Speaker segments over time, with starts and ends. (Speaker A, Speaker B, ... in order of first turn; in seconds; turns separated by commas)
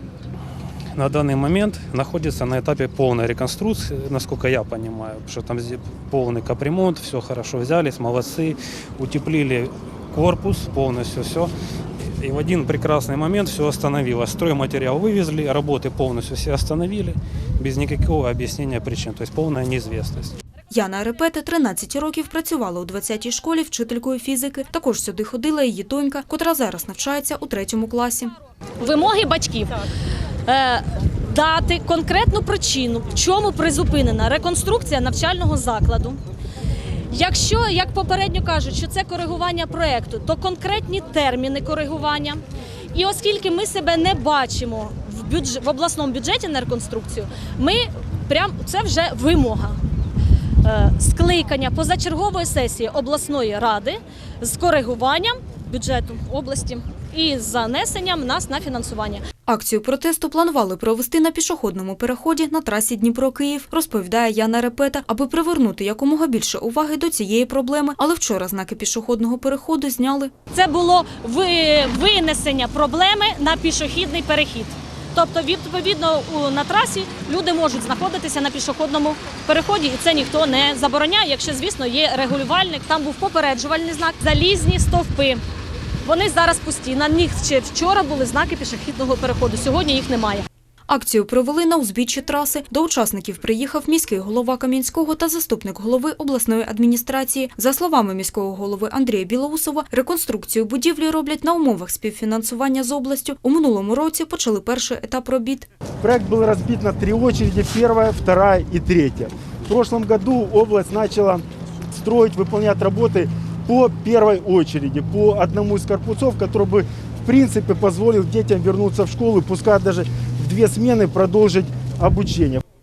Speaker A: 0.9-11.5, Speaker A: 12.0-20.4, Speaker B: 20.7-28.3, Speaker C: 28.8-29.8, Speaker C: 30.4-36.2, Speaker C: 37.1-49.8, Speaker C: 50.6-59.2, Speaker B: 59.5-70.3, Speaker C: 70.5-85.4, Speaker C: 86.0-90.5, Speaker B: 90.9-105.7, Speaker D: 106.0-122.6